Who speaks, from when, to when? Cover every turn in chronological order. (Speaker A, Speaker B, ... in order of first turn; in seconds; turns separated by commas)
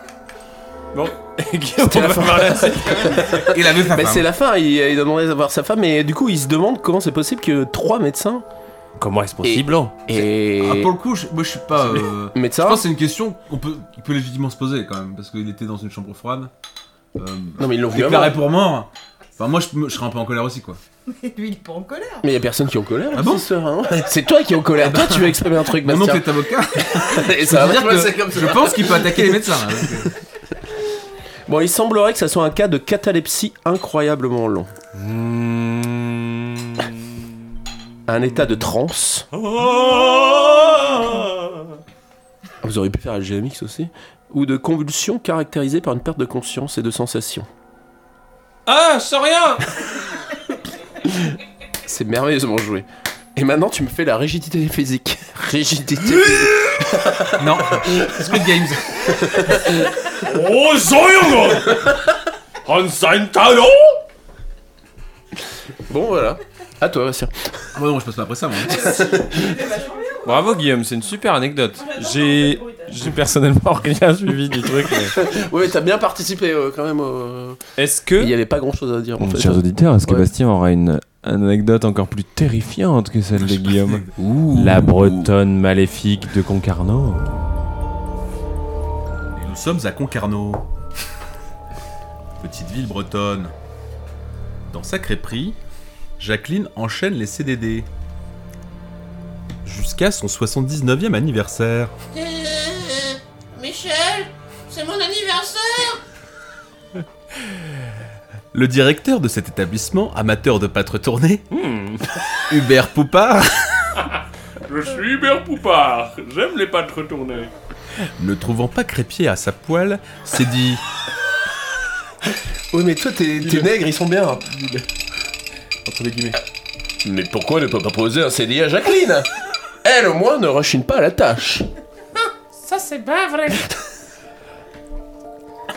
Speaker A: 0.9-3.5, Speaker B: 1.8-8.4, Speaker C: 3.4-4.3, Speaker A: 9.0-10.0, Speaker B: 9.4-10.9, Speaker C: 10.1-16.5, Speaker B: 12.3-12.8, Speaker C: 17.2-20.8, Speaker B: 17.6-18.4, Speaker D: 21.1-22.3, Speaker B: 22.2-29.6, Speaker C: 23.1-23.5, Speaker C: 24.8-30.1, Speaker B: 31.5-34.7, Speaker A: 35.0-37.4, Speaker B: 38.1-39.3, Speaker A: 39.3-41.8, Speaker B: 42.6-47.5, Speaker A: 48.7-49.7, Speaker B: 51.9-57.4, Speaker A: 56.2-56.8, Speaker C: 57.4-59.3, Speaker B: 59.3-59.6, Speaker A: 59.7-62.0, Speaker A: 62.6-64.0, Speaker B: 65.9-67.7, Speaker C: 67.7-69.1, Speaker B: 68.9-69.5, Speaker D: 69.0-70.5, Speaker A: 70.2-75.2, Speaker D: 71.8-72.9, Speaker B: 75.1-77.6, Speaker A: 77.8-78.3, Speaker B: 78.2-80.3, Speaker A: 79.2-87.5, Speaker C: 83.4-84.1, Speaker B: 84.2-85.3, Speaker C: 89.3-90.7, Speaker C: 92.4-93.5, Speaker C: 94.7-95.6, Speaker C: 96.2-97.9, Speaker C: 99.7-101.9, Speaker E: 102.1-106.0, Speaker C: 108.5-111.5, Speaker A: 111.5-112.4, Speaker C: 112.5-113.9, Speaker A: 114.0-117.5, Speaker C: 118.2-120.8, Speaker B: 122.7-124.4, Speaker C: 123.4-123.8, Speaker C: 124.4-124.9, Speaker C: 125.8-126.4, Speaker B: 127.0-129.3, Speaker B: 129.8-131.7, Speaker A: 132.6-133.6